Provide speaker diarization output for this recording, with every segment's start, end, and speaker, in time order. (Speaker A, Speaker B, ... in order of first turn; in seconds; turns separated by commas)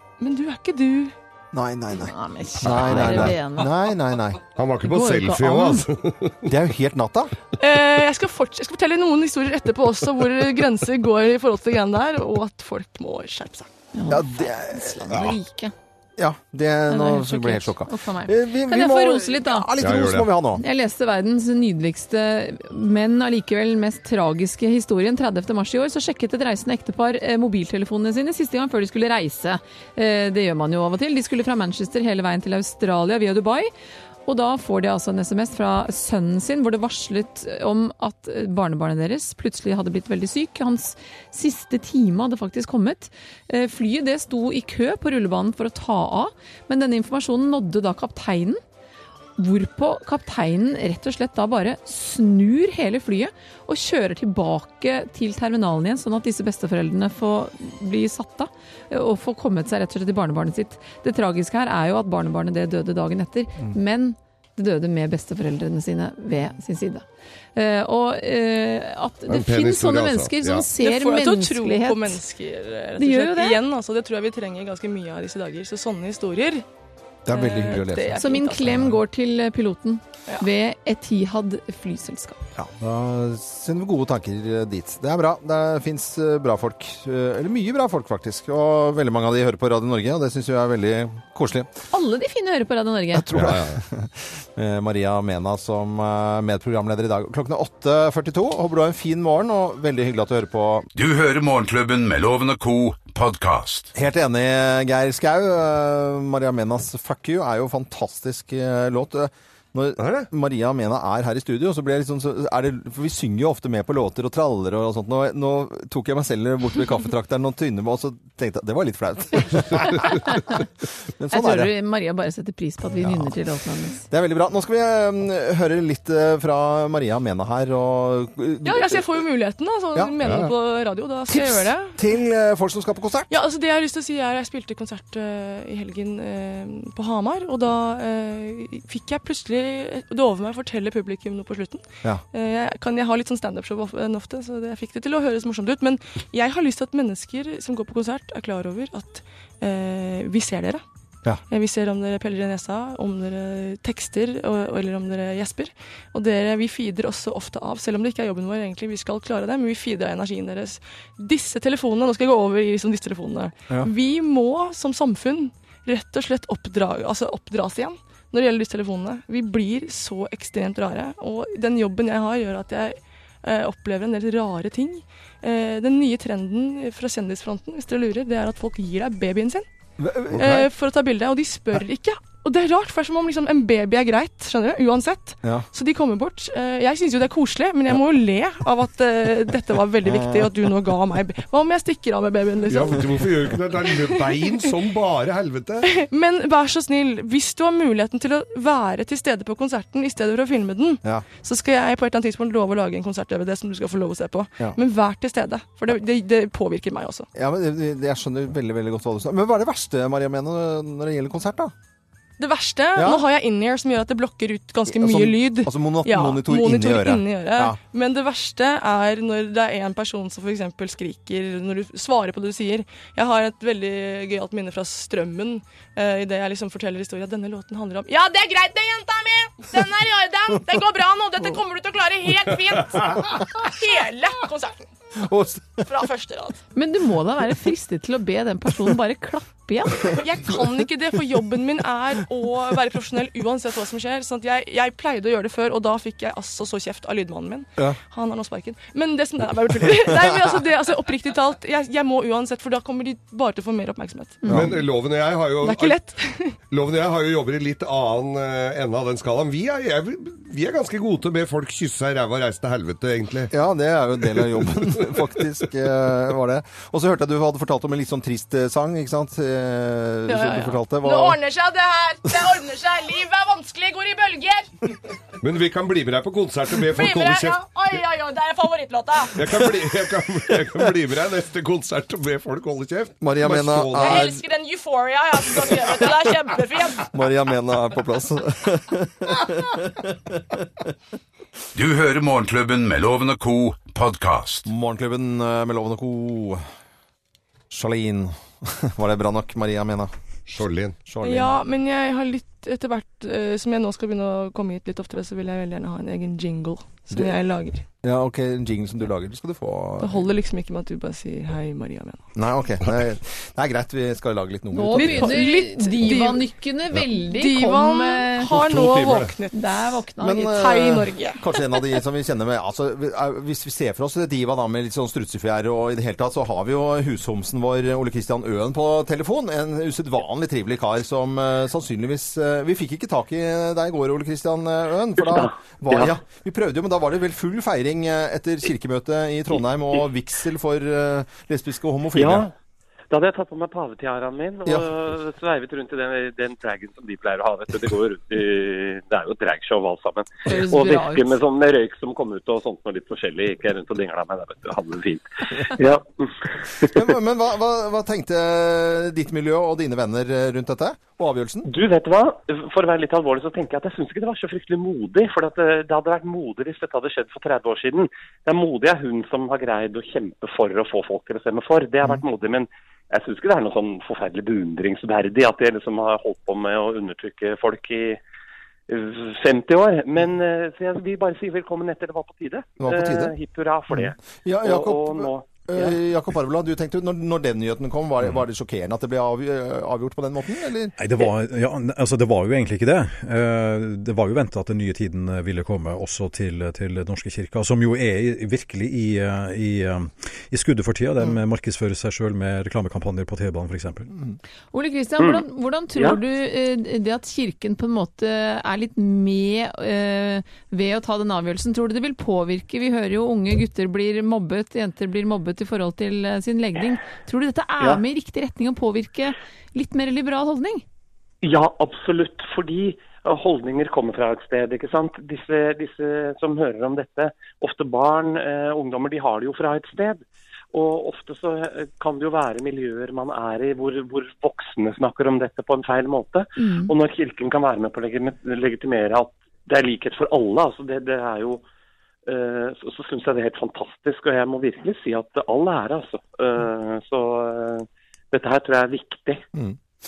Speaker A: 0.2-1.1, Speaker B: 1.5-4.4, Speaker C: 1.9-3.7, Speaker D: 4.5-6.4, Speaker C: 4.8-5.8, Speaker B: 6.5-7.3, Speaker A: 7.6-13.7, Speaker C: 13.9-15.7, Speaker B: 14.1-15.3, Speaker B: 16.2-20.6, Speaker C: 16.9-19.7, Speaker D: 19.8-20.3, Speaker C: 20.6-33.7, Speaker C: 34.3-48.6, Speaker C: 49.4-67.0, Speaker C: 67.5-72.2, Speaker D: 69.3-70.7, Speaker A: 70.8-76.7, Speaker C: 73.0-73.6, Speaker B: 77.2-79.0, Speaker A: 77.3-78.8, Speaker C: 78.1-82.4, Speaker B: 82.5-91.7, Speaker C: 91.9-93.3, Speaker B: 93.1-100.9, Speaker D: 93.3-93.8, Speaker E: 100.9-103.9, Speaker B: 103.9-120.6, Speaker D: 110.0-110.3, Speaker B: 121.2-121.7, Speaker C: 121.3-124.0, Speaker B: 123.0-123.3, Speaker B: 124.1-129.1, Speaker A: 128.6-132.0, Speaker D: 130.2-130.5, Speaker B: 131.3-133.3, Speaker A: 133.3-150.8, Speaker A: 151.5-179.7, Speaker B: 180.0-180.7, Speaker A: 180.3-193.2, Speaker D: 180.4-180.6, Speaker B: 190.0-190.5, Speaker D: 192.7-195.9, Speaker A: 194.0-194.7, Speaker A: 195.8-207.3, Speaker B: 207.3-211.7, Speaker A: 212.4-234.8, Speaker B: 212.9-213.2, Speaker B: 214.9-217.8, Speaker B: 235.2-235.8, Speaker A: 235.8-236.6, Speaker C: 236.7-240.1, Speaker A: 240.1-254.7, Speaker B: 254.4-254.7, Speaker D: 254.5-256.0, Speaker A: 255.6-256.6, Speaker D: 256.7-263.5, Speaker B: 263.5-271.4, Speaker D: 264.4-265.1, Speaker A: 270.3-274.8, Speaker D: 275.4-277.7, Speaker A: 276.8-279.4, Speaker D: 279.4-284.4, Speaker B: 279.5-279.9, Speaker B: 280.5-280.8, Speaker B: 283.2-284.4, Speaker A: 284.0-287.1, Speaker B: 287.1-290.9, Speaker E: 291.7-294.7, Speaker B: 294.6-296.6, Speaker B: 297.7-300.1, Speaker D: 300.5-301.0, Speaker B: 301.1-301.5, Speaker A: 301.2-307.8, Speaker B: 308.0-310.3, Speaker A: 310.0-312.2, Speaker B: 312.3-315.5, Speaker C: 314.7-318.5, Speaker A: 314.9-316.5, Speaker A: 317.1-319.7, Speaker D: 318.4-319.3, Speaker C: 319.5-320.8, Speaker B: 320.2-342.5, Speaker A: 320.5-321.4, Speaker F: 335.2-336.1, Speaker F: 342.1-342.5, Speaker F: 343.1-356.9, Speaker C: 350.4-351.3, Speaker B: 356.9-361.7, Speaker F: 361.6-378.2, Speaker F: 378.9-386.0, Speaker B: 382.8-383.3, Speaker B: 383.9-390.9, Speaker G: 391.0-404.1, Speaker C: 404.7-420.8, Speaker F: 405.2-405.4, Speaker F: 421.4-441.6, Speaker C: 436.6-436.9, Speaker F: 442.2-449.4, Speaker B: 449.5-449.8